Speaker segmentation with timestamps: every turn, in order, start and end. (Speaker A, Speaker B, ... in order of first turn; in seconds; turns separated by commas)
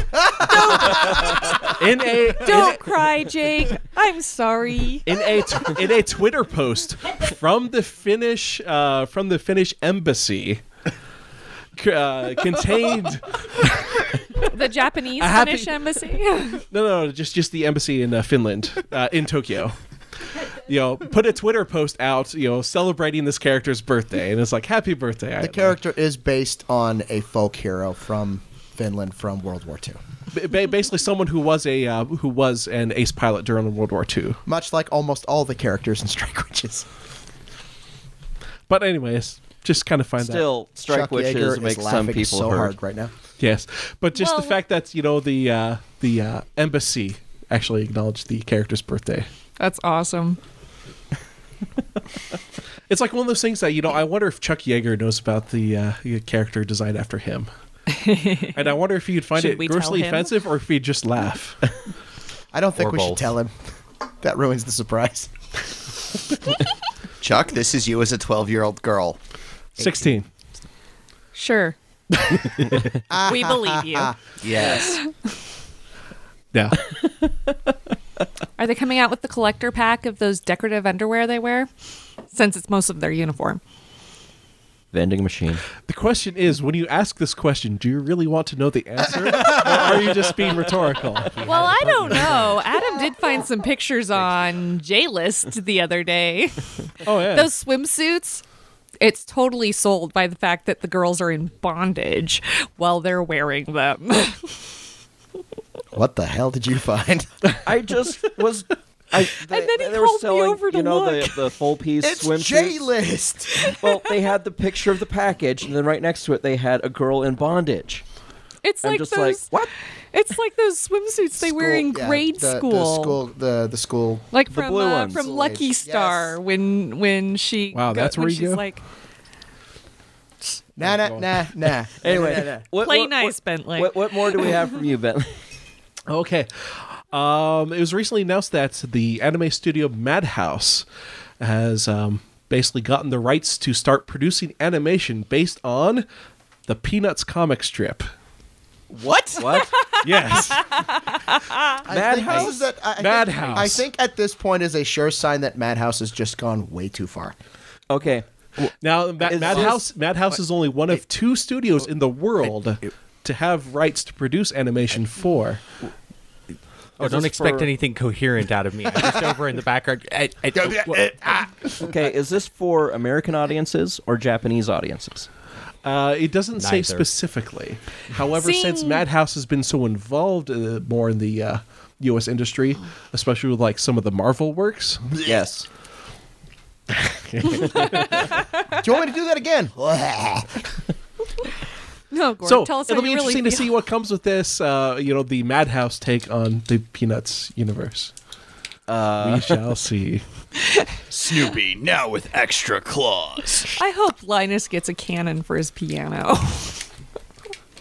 Speaker A: 0.4-2.9, Speaker B: 0.5-1.7, Speaker B: 2.4-5.1, Speaker A: 5.0-10.6, Speaker A: 11.8-14.5, Speaker B: 14.4-16.6, Speaker A: 15.1-19.8, Speaker A: 20.6-25.8, Speaker C: 25.4-30.0, Speaker A: 30.3-34.4, Speaker C: 34.5-36.9, Speaker A: 38.7-40.5, Speaker D: 40.2-42.7, Speaker C: 40.9-43.1, Speaker A: 43.4-49.3, Speaker B: 44.1-44.6, Speaker B: 49.6-50.4, Speaker A: 52.9-57.5, Speaker B: 57.9-58.8, Speaker A: 58.5-61.7, Speaker B: 59.3-60.3, Speaker C: 62.5-63.5, Speaker E: 62.8-63.3, Speaker C: 64.2-65.3, Speaker F: 67.2-69.2, Speaker A: 69.8-70.3, Speaker B: 71.3-71.8, Speaker C: 73.1-74.2, Speaker B: 73.2-74.1, Speaker F: 74.4-75.0, Speaker B: 74.8-75.1, Speaker A: 76.5-76.8, Speaker B: 78.6-81.7, Speaker B: 82.3-83.6, Speaker D: 84.9-85.6, Speaker A: 85.8-91.4, Speaker E: 91.2-92.6, Speaker B: 91.4-98.4, Speaker A: 97.0-97.5, Speaker B: 99.0-104.7, Speaker C: 105.9-107.5, Speaker D: 107.6-112.9, Speaker B: 109.5-111.4, Speaker C: 112.0-113.5, Speaker D: 113.7-118.0, Speaker B: 118.6-123.2, Speaker D: 118.8-119.7, Speaker C: 121.4-124.3, Speaker B: 124.3-128.8, Speaker D: 124.5-125.2, Speaker C: 125.1-126.4, Speaker A: 127.7-128.7, Speaker C: 130.8-132.6, Speaker A: 130.8-131.3, Speaker D: 132.0-135.4, Speaker B: 132.8-134.6, Speaker A: 136.1-140.8, Speaker A: 141.4-146.0, Speaker A: 146.7-148.1, Speaker B: 149.1-151.8, Speaker D: 149.4-149.9, Speaker A: 149.9-150.8, Speaker C: 151.8-157.3, Speaker D: 151.9-152.6, Speaker A: 152.3-153.8, Speaker D: 157.9-159.8, Speaker A: 158.8-165.6, Speaker D: 167.0-167.7, Speaker E: 167.0-171.2, Speaker C: 170.5-171.9, Speaker D: 171.8-175.3, Speaker A: 175.8-185.1, Speaker E: 176.6-177.1, Speaker B: 178.3-179.0, Speaker D: 185.2-185.7, Speaker A: 187.1-188.3, Speaker B: 187.7-188.4, Speaker C: 188.8-190.7, Speaker B: 192.1-193.7, Speaker A: 192.4-198.1, Speaker D: 198.9-199.6, Speaker A: 199.2-200.2, Speaker F: 201.1-203.7, Speaker B: 203.8-206.9